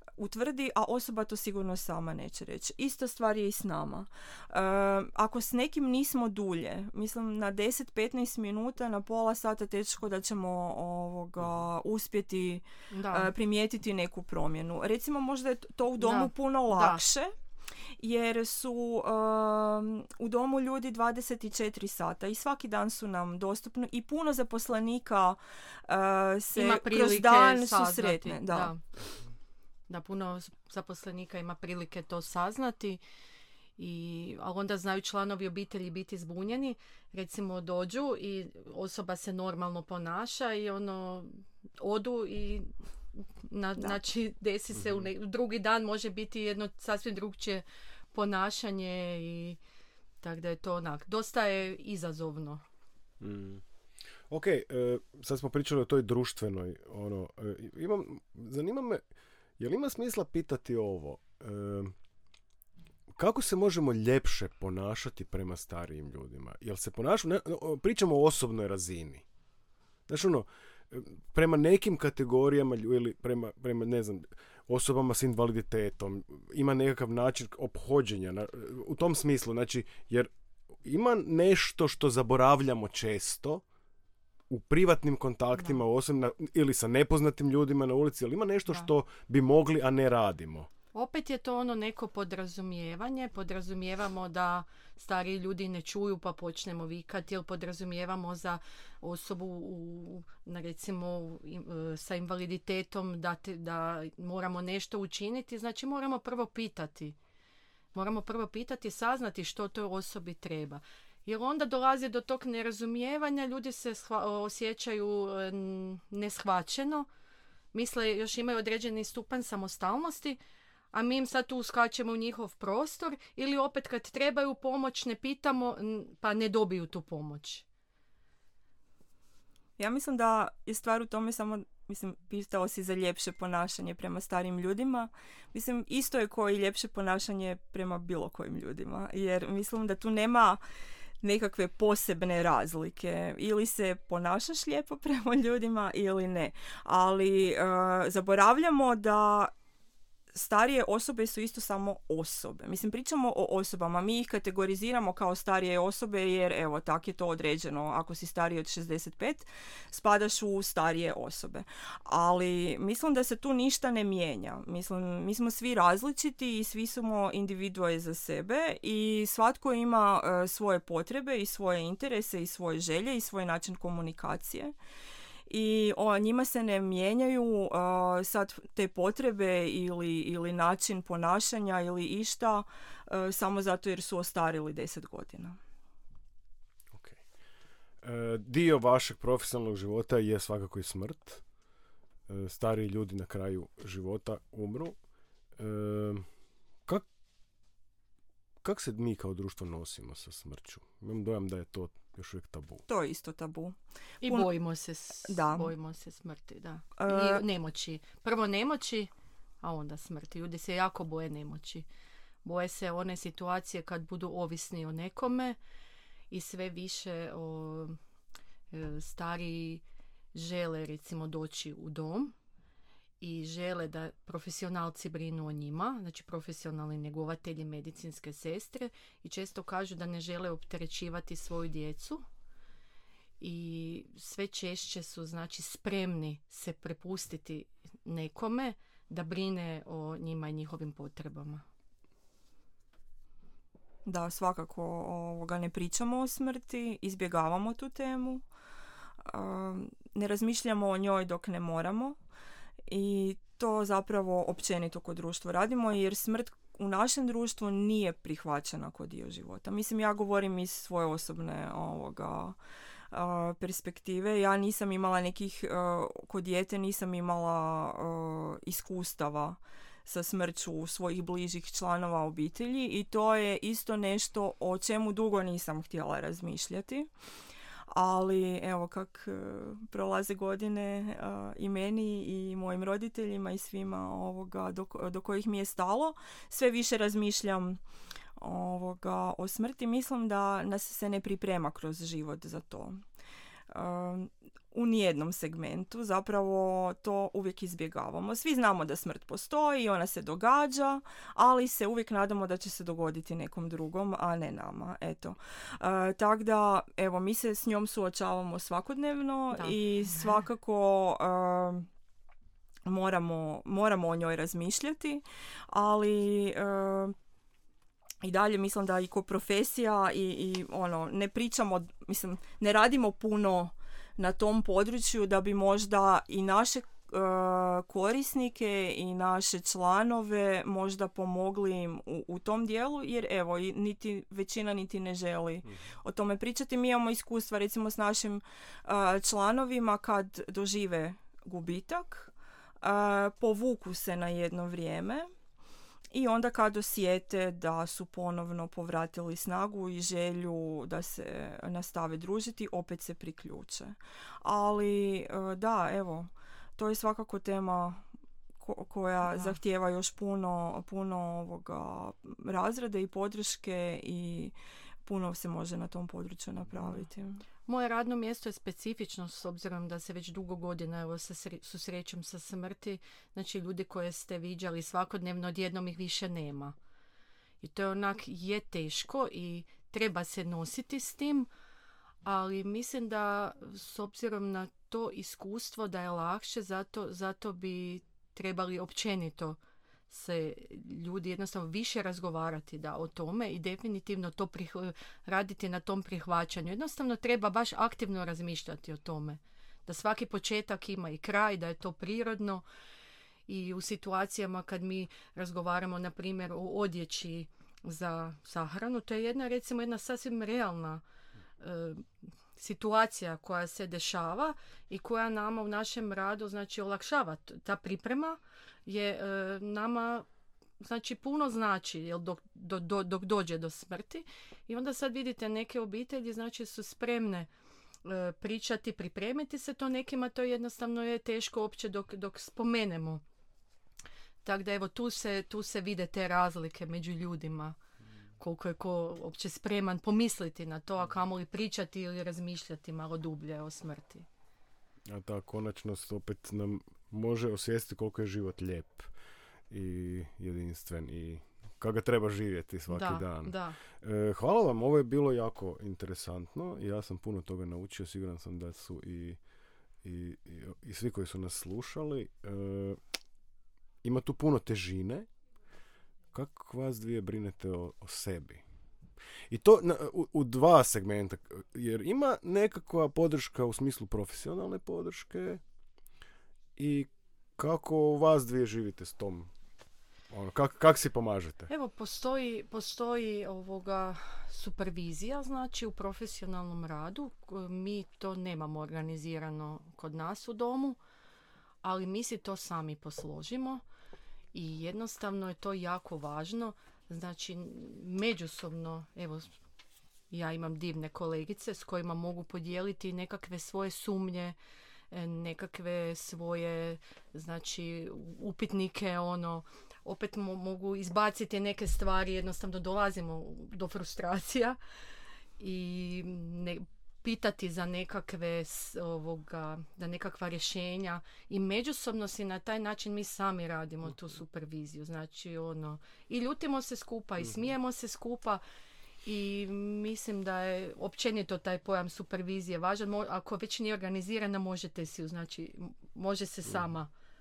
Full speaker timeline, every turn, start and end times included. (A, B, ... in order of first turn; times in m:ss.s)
0:00.2-0:17.3 A
0:12.9-0:13.3 B
0:16.0-0:17.0 B
0:18.0-0:28.7 A
0:26.5-0:28.8 B
0:29.9-0:33.0 B
0:33.8-0:49.6 B
0:44.7-0:45.1 C
0:50.2-0:52.6 B
0:53.2-0:53.6 C
0:54.3-0:59.0 C
0:59.6-1:01.9 C
1:03.1-1:09.2 C
1:10.1-1:20.3 C
1:20.8-1:23.6 C
1:24.5-1:30.7 C
1:30.9-1:47.2 B
1:47.9-1:57.1 B
1:57.7-2:00.4 B
2:00.9-2:07.6 B
2:09.8-2:20.6 A
2:21.2-2:29.5 A
2:30.3-2:54.7 A
2:55.5-3:05.6 A
3:06.9-3:07.2 C
3:08.0-3:11.4 C
3:12.3-3:15.0 C
3:15.6-3:16.2 C
3:18.6-3:22.8 C
3:22.9-3:24.5 A
3:24.2-3:29.1 B
3:25.3-3:25.7 A
3:27.0-3:27.4 A
3:29.6-3:31.8 B
3:32.4-3:35.6 B
3:36.3-3:38.0 B
3:38.7-3:39.8 B
3:40.3-3:42.3 B
3:43.2-3:52.2 B
3:53.4-4:01.6 B
4:04.0-4:08.4 A
4:09.2-4:12.2 A
4:12.9-4:22.6 A
4:23.1-4:37.1 A
4:37.9-4:47.8 A
4:48.4-4:53.0 A
4:53.7-5:11.9 A
5:09.5-5:10.3 B
5:12.8-5:17.1 A
5:18.2-5:45.3 A
5:46.1-5:58.0 A
5:58.6-6:07.4 A
5:59.2-5:59.6 B
6:07.6-6:16.7 B
6:17.6-6:21.5 B
6:22.2-6:29.6 B
6:30.1-6:42.6 B
6:43.5-6:51.0 B
6:51.6-7:00.2 B
7:00.8-7:07.5 B
7:08.0-7:13.2 B
7:14.4-7:17.8 B
7:18.4-7:24.2 B
7:25.1-7:29.1 C
7:29.7-7:39.4 C
7:32.9-7:33.8 B
7:40.0-7:43.0 C
7:44.0-7:45.3 C
7:46.3-7:48.6 C
7:49.5-7:55.6 C
7:56.8-7:59.5 C
8:00.3-8:01.7 C
8:01.7-8:11.0 B
8:11.8-8:13.8 B
8:14.5-8:19.5 B
8:20.3-8:24.6 B
8:25.1-8:34.8 B
8:35.6-8:48.6 B
8:49.2-8:57.1 B